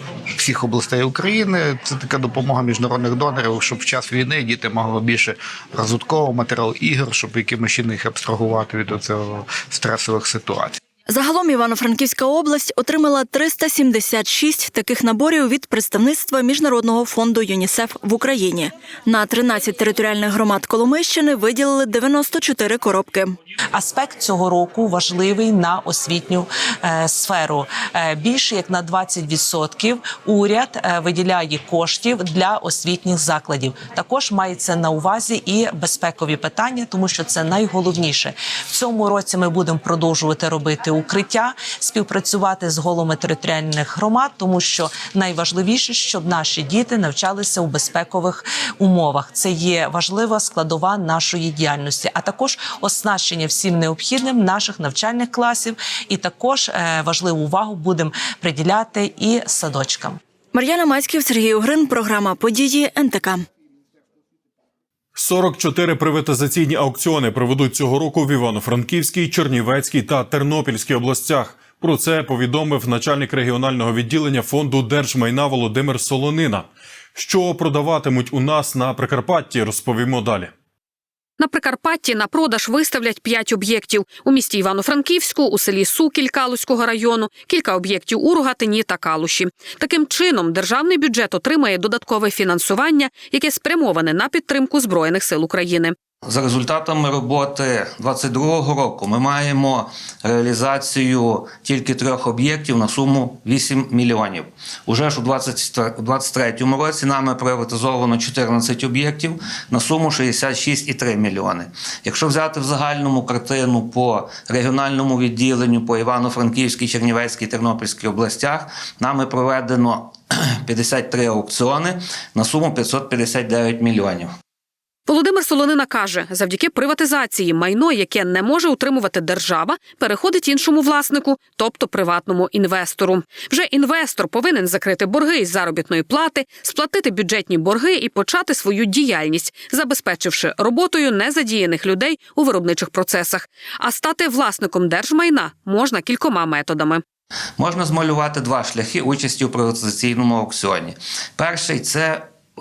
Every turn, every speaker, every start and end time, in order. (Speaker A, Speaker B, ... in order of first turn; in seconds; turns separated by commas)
Speaker A: 0.3-10.8, Speaker B: 11.1-23.4, Speaker C: 23.7-60.2, Speaker B: 60.5-63.5, Speaker D: 65.1-80.5, Speaker E: 81.4-95.9, Speaker F: 96.2-124.3, Speaker E: 125.1-147.0, Speaker F: 147.6-152.3